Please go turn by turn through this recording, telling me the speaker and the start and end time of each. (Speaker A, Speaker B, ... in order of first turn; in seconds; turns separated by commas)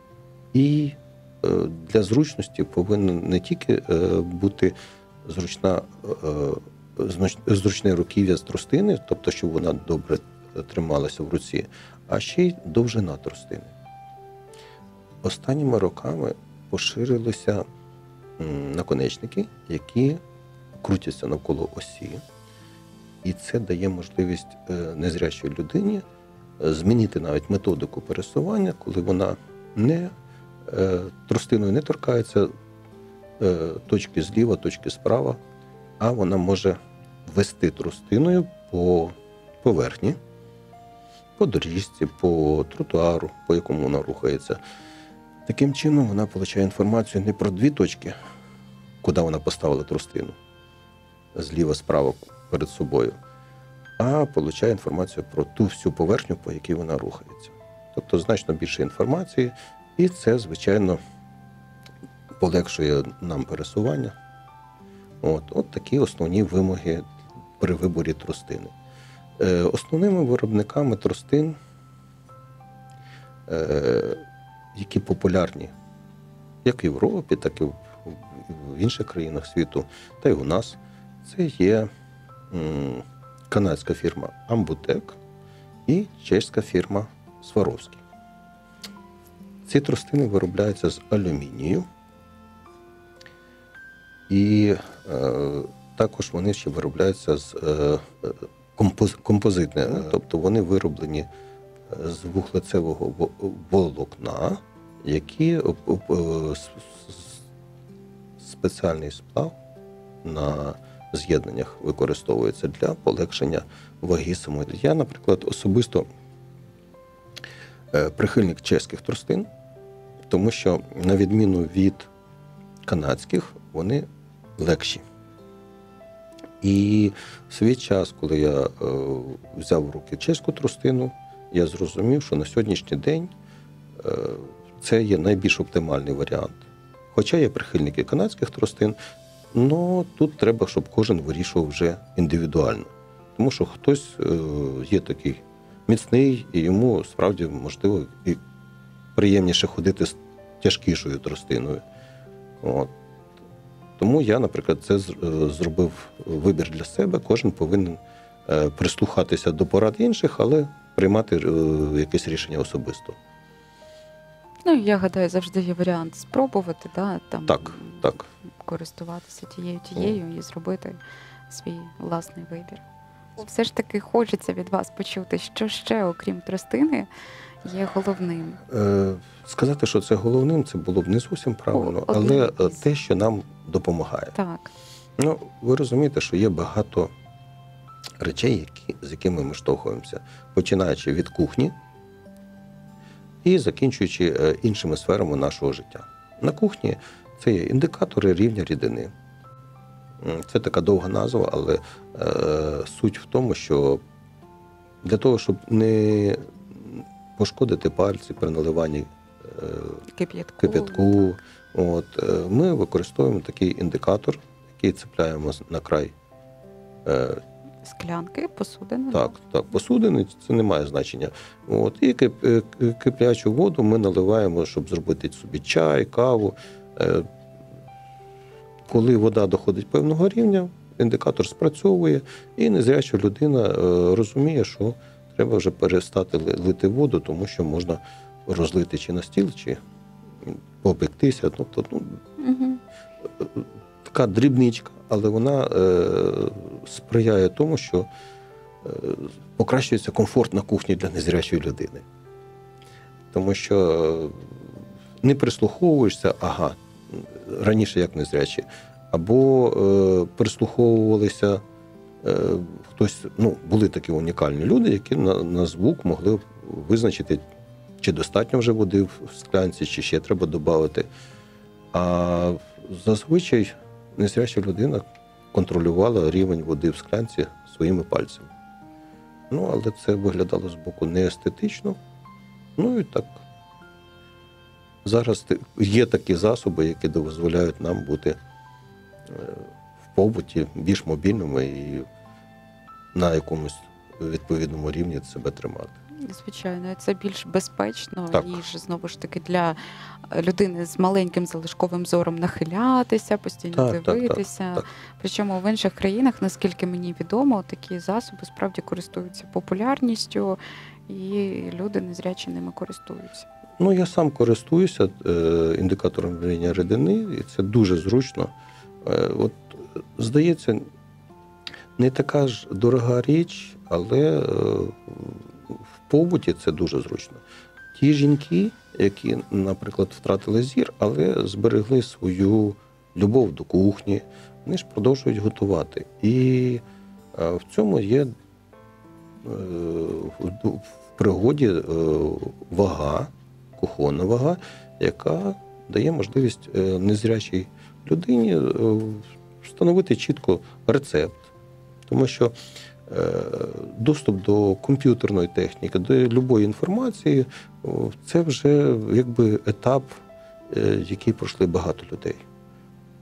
Speaker A: 0.5-13.7, Speaker A: 15.2-17.6, Speaker A: 18.4-20.2, Speaker A: 20.8-22.2, Speaker A: 23.2-26.0, Speaker A: 26.6-30.1, Speaker A: 30.6-32.5, Speaker A: 33.4-35.4, Speaker A: 36.0-40.2, Speaker A: 41.4-44.6, Speaker A: 45.5-48.1, Speaker A: 49.0-50.4, Speaker A: 51.3-53.2, Speaker A: 54.0-61.0, Speaker A: 62.4-64.2, Speaker A: 65.2-68.7, Speaker A: 69.4-71.5, Speaker A: 73.5-74.2, Speaker A: 74.7-75.7, Speaker A: 76.6-81.9, Speaker A: 82.5-85.2, Speaker A: 85.9-88.0, Speaker A: 89.7-91.9, Speaker A: 94.3-101.3, Speaker A: 101.9-107.4, Speaker A: 108.4-109.5, Speaker A: 110.2-116.1, Speaker A: 117.9-119.5, Speaker A: 120.3-122.1, Speaker A: 122.8-125.0, Speaker A: 126.6-133.3, Speaker A: 134.0-138.9, Speaker A: 139.5-148.4, Speaker A: 149.2-151.8, Speaker A: 152.6-152.9, Speaker A: 154.0-163.2, Speaker B: 164.6-171.0, Speaker A: 167.5-168.3, Speaker B: 171.5-172.8, Speaker B: 173.4-177.1, Speaker B: 177.6-178.6, Speaker A: 178.7-184.3, Speaker B: 181.7-182.8, Speaker B: 184.3-184.7, Speaker A: 185.2-187.1, Speaker A: 188.2-191.8, Speaker A: 193.4-199.1, Speaker A: 200.2-204.0, Speaker A: 205.0-210.0, Speaker B: 210.1-211.2, Speaker A: 210.6-216.1, Speaker A: 217.0-217.4, Speaker B: 217.8-219.3, Speaker A: 219.1-227.3, Speaker A: 228.9-239.8, Speaker A: 240.4-242.2, Speaker B: 242.4-242.8, Speaker A: 243.2-248.1, Speaker A: 248.8-252.0, Speaker A: 253.3-261.6, Speaker A: 262.2-267.4, Speaker A: 268.0-271.1, Speaker A: 271.9-278.5, Speaker A: 279.5-282.0, Speaker A: 282.8-283.4, Speaker A: 285.0-288.4, Speaker A: 289.3-292.1, Speaker A: 293.1-295.9, Speaker B: 296.2-299.8, Speaker B: 300.3-313.4, Speaker A: 303.7-304.8, Speaker A: 313.8-320.9, Speaker A: 322.0-327.4, Speaker A: 327.9-336.8, Speaker A: 337.3-338.3, Speaker A: 339.4-351.5, Speaker A: 352.1-352.5, Speaker A: 353.1-360.1, Speaker A: 360.7-362.4